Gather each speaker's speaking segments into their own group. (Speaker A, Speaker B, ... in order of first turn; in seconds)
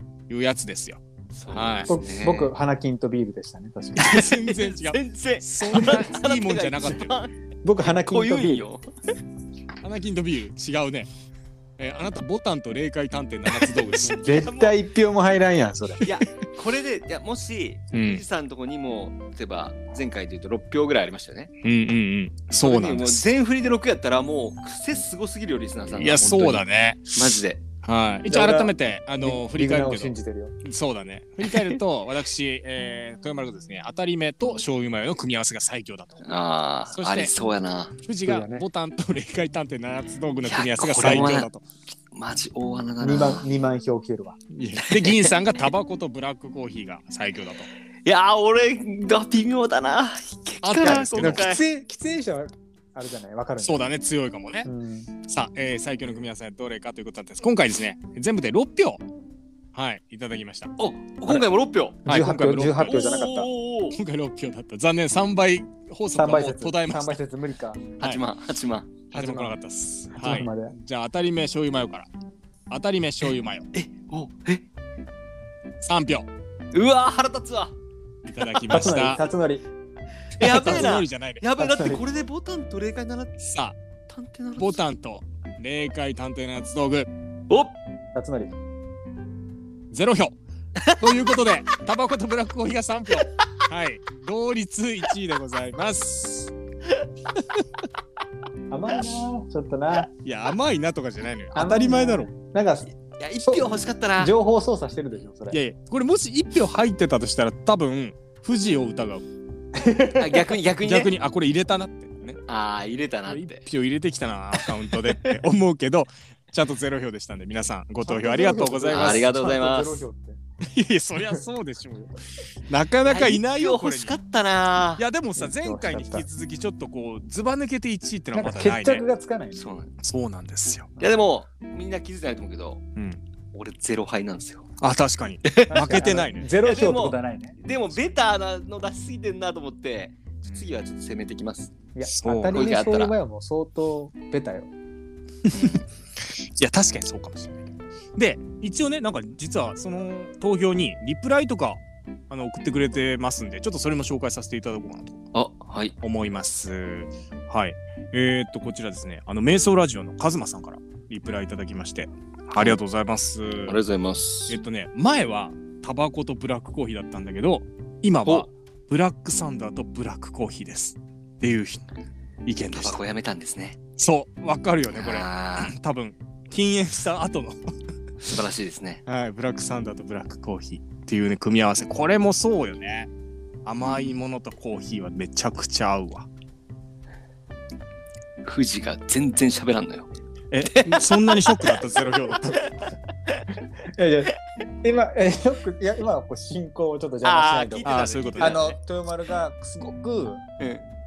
Speaker A: 0.3-1.9, 4.0-7.2, 9.8-11.1, 11.8-14.2, 17.9-18.2, 21.6-23.3, 25.9-36.4, 36.9-37.3, 38.0-41.6, 44.5-47.7, 50.6-51.5, 53.6-54.7, 55.2-59.0, 59.7-60.7, 62.1-63.1, 63.9-67.2, 69.1-72.1, 72.7-73.7, 75.8-76.3, 78.2-79.2, 80.4-81.5, 83.4-83.8, 84.6-87.1, 89.9-90.4, 91.0-96.5, 97.4-97.6, 100.2-102.3, 105.5-109.2, 110.8-112.4, 113.3-119.3, 120.6-122.1, 122.7-124.2, 125.0-129.0, 130.0-130.9, 133.0-133.2, 134.8-136.5, 140.5-140.7, 142.1-142.7, 145.5-155.2, 156.0-163.8, 164.5-171.8, 172.4-173.0, 174.0-177.7, 179.1-183.1, 183.7-186.3, 190.5-192.7, 197.8-198.6
Speaker B: 1.3-2.5, 4.0-8.8, 14.1-14.8, 16.0-21.5, 22.6-27.6, 31.5-31.8, 36.2-38.0, 40.5-41.5, 42.1-43.5, 44.9-45.3, 48.0-51.6, 60.8-62.0, 62.8-64.0, 68.0-69.0, 73.7-74.7, 76.7-77.7, 80.4-83.4, 84.1-84.8, 90.8-91.0, 103.2-104.3, 110.2-111.1, 112.5-113.6, 118.9-120.0, 123.0-125.0, 129.6-129.9, 131.0-132.8, 133.5-134.7, 135.5-135.9, 136.6-141.7, 142.5-143.1, 145.5-145.8, 155.3-155.9, 163.7-164.6, 172.7-173.8, 174.9-175.7, 178.2-179.0, 188.4-190.1, 190.6-191.8, 192.5-192.8, 197.2-198.8
Speaker C: 1.9-4.2, 7.6-8.7, 14.1-16.1, 28.3-30.5, 38.3-38.6, 43.0-44.4, 50.8-53.9, 54.6-55.1, 62.0-63.5, 66.2-67.8, 69.1-69.6, 70.2-70.8, 78.7-79.6, 81.6-82.0, 88.2-88.5, 98.7-100.1, 101.5-102.9, 103.5-105.6, 109.8-110.5, 118.0-120.4, 125.4-126.3, 128.3-129.6, 135.7-137.6, 141.9-144.7, 193.9-200.4